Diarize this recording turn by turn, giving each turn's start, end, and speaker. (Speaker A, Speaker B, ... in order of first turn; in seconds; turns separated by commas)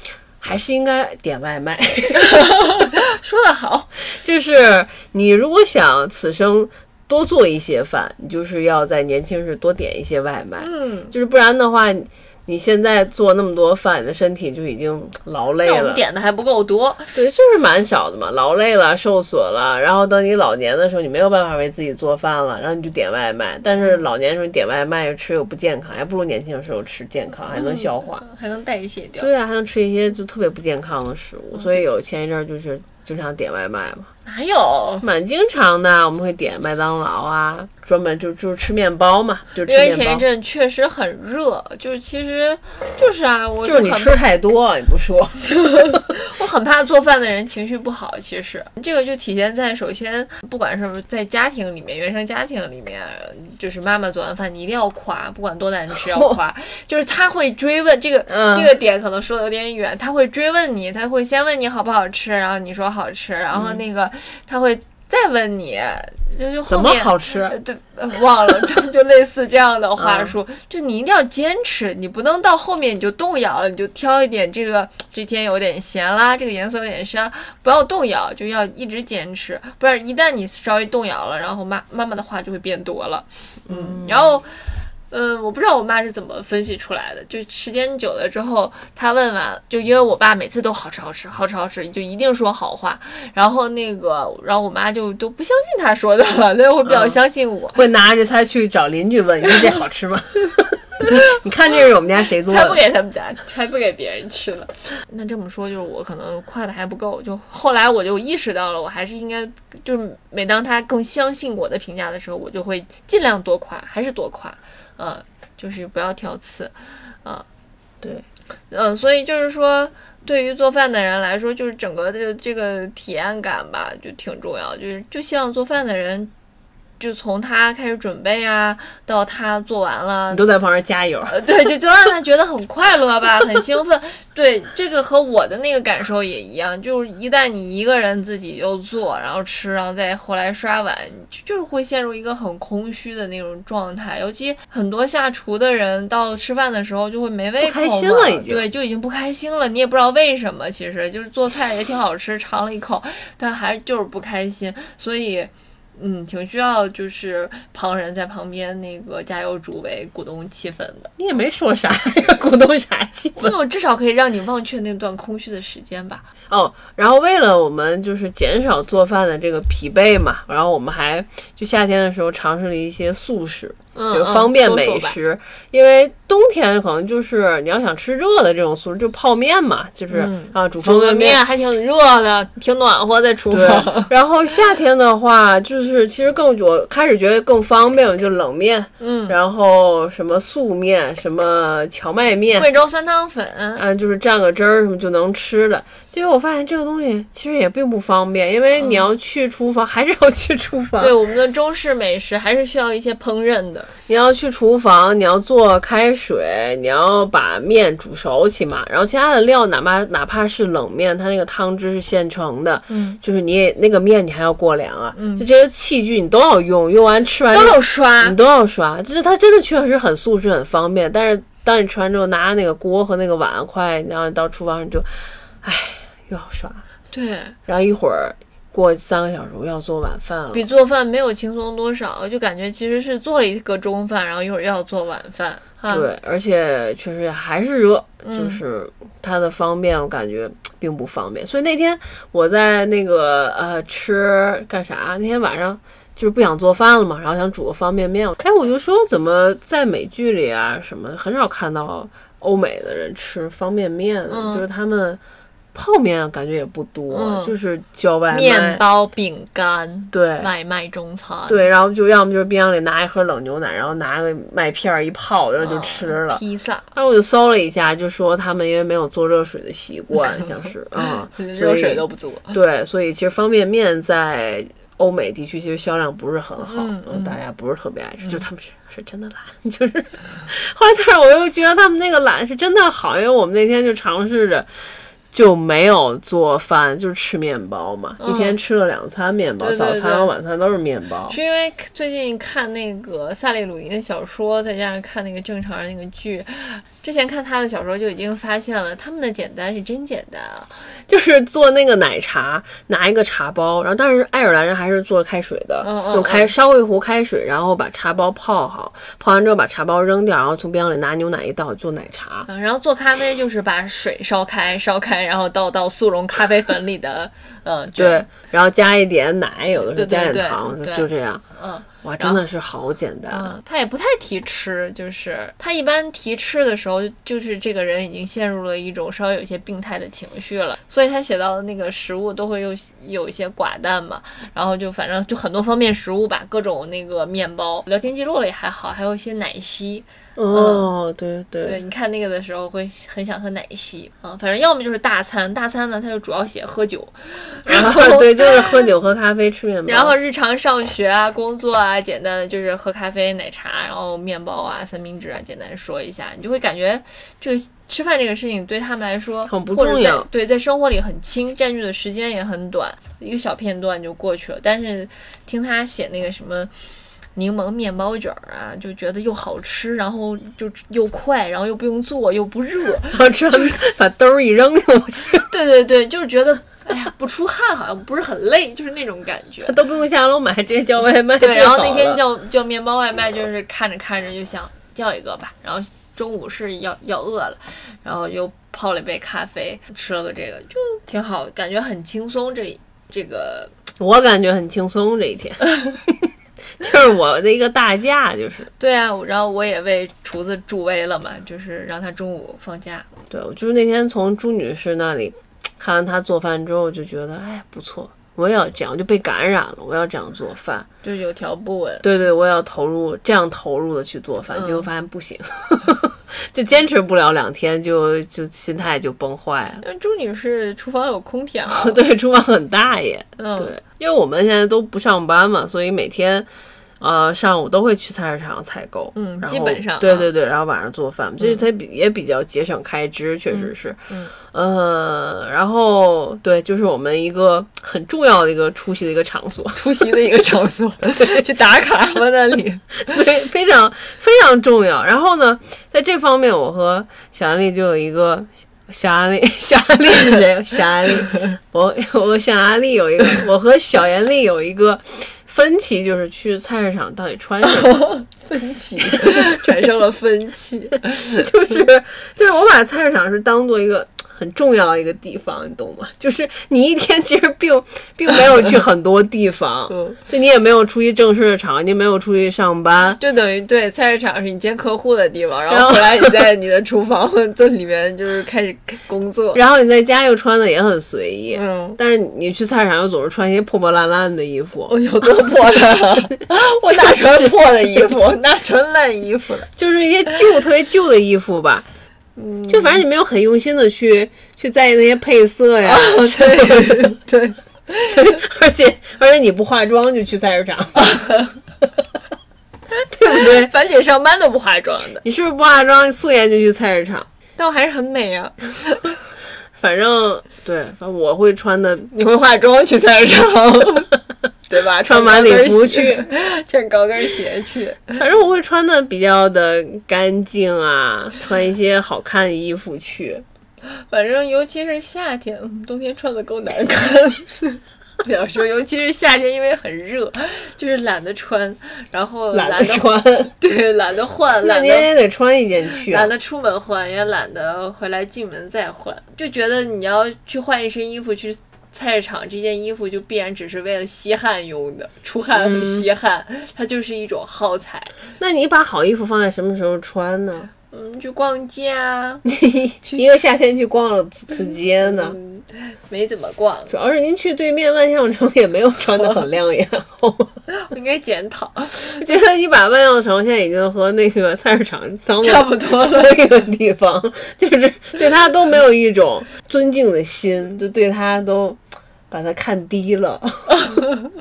Speaker A: 0.4-2.5, Speaker B: 2.2-3.9, Speaker A: 4.0-16.0, Speaker B: 10.6-11.1, Speaker B: 15.6-17.2, Speaker A: 17.1-28.2, Speaker B: 27.5-29.3, Speaker A: 29.2-34.1, Speaker B: 34.3-35.0, Speaker A: 35.0-40.2, Speaker B: 39.6-44.1, Speaker A: 43.6-46.0, Speaker B: 45.5-97.8, Speaker A: 58.3-58.8, Speaker A: 63.5-63.8, Speaker A: 66.7-67.6, Speaker A: 70.0-70.3, Speaker A: 83.7-84.2, Speaker A: 96.9-97.2, Speaker A: 97.8-102.8, Speaker B: 102.4-117.5, Speaker B: 118.7-126.3, Speaker B: 127.0-130.5, Speaker A: 130.3-131.3, Speaker B: 131.3-161.1, Speaker A: 147.6-148.7, Speaker A: 161.2-163.6, Speaker B: 163.4-166.3, Speaker A: 166.5-181.4, Speaker B: 173.9-175.2, Speaker B: 180.1-184.1, Speaker A: 183.5-192.7, Speaker B: 189.0-189.4, Speaker B: 192.6-193.8, Speaker A: 193.8-201.1, Speaker B: 198.8-199.1, Speaker B: 201.0-203.9, Speaker A: 204.1-226.8, Speaker B: 212.9-213.2, Speaker B: 215.2-215.5, Speaker B: 217.5-218.4, Speaker B: 227.1-227.6, Speaker A: 227.7-230.7, Speaker B: 230.5-236.1, Speaker A: 235.9-255.2, Speaker B: 238.2-238.6, Speaker B: 254.3-254.7, Speaker A: 255.7-258.8, Speaker B: 257.1-257.6, Speaker B: 258.3-261.6, Speaker A: 260.1-260.5, Speaker A: 261.5-266.4, Speaker B: 265.6-266.9, Speaker A: 266.9-284.7, Speaker B: 270.9-272.6, Speaker B: 276.6-277.4, Speaker A: 285.3-291.4, Speaker B: 288.2-288.6, Speaker B: 289.6-290.3, Speaker B: 291.3-300.7, Speaker A: 301.1-312.5, Speaker B: 305.8-306.5, Speaker B: 312.5-318.2, Speaker A: 318.0-321.4, Speaker B: 319.9-322.4, Speaker A: 322.0-323.5, Speaker B: 323.3-340.9, Speaker A: 340.4-341.8, Speaker B: 341.6-348.9, Speaker A: 347.7-350.1, Speaker B: 349.9-366.7, Speaker A: 359.5-360.3, Speaker B: 367.4-373.8, Speaker A: 373.1-375.5, Speaker B: 375.5-379.8, Speaker A: 379.7-382.2, Speaker B: 381.0-393.7, Speaker A: 394.0-398.7, Speaker B: 398.8-403.1, Speaker A: 403.3-410.9, Speaker B: 411.0-412.1, Speaker A: 412.0-419.8, Speaker B: 414.5-414.9, Speaker B: 419.8-422.0, Speaker A: 421.7-426.5, Speaker B: 423.4-423.7, Speaker A: 427.0-440.0, Speaker B: 429.1-430.3, Speaker B: 433.5-434.3, Speaker B: 439.8-443.2, Speaker A: 443.1-458.1, Speaker B: 457.8-461.5, Speaker A: 459.0-459.6, Speaker A: 461.4-473.2, Speaker B: 469.9-470.2, Speaker B: 473.2-479.6, Speaker A: 475.7-476.3, Speaker A: 479.5-485.5, Speaker B: 481.5-482.0, Speaker B: 484.9-489.7, Speaker A: 486.9-487.5, Speaker A: 489.8-491.9, Speaker B: 492.4-493.0, Speaker A: 492.7-497.2, Speaker B: 495.8-498.4, Speaker A: 498.1-501.2, Speaker B: 501.0-501.5, Speaker B: 502.9-505.2, Speaker A: 503.1-503.7, Speaker A: 505.2-507.3, Speaker B: 507.6-509.2, Speaker A: 509.8-512.1, Speaker B: 512.1-514.1, Speaker B: 514.7-518.2, Speaker A: 515.1-516.3, Speaker A: 518.1-523.5, Speaker B: 523.8-535.1, Speaker A: 532.5-533.5, Speaker A: 534.6-536.3, Speaker B: 536.1-548.1, Speaker A: 545.6-546.1, Speaker A: 548.4-550.7, Speaker B: 550.9-552.5, Speaker A: 552.5-555.4, Speaker B: 555.0-556.9, Speaker A: 556.9-560.5, Speaker B: 560.7-562.2, Speaker A: 562.2-571.8, Speaker B: 565.4-566.5, Speaker A: 572.3-573.8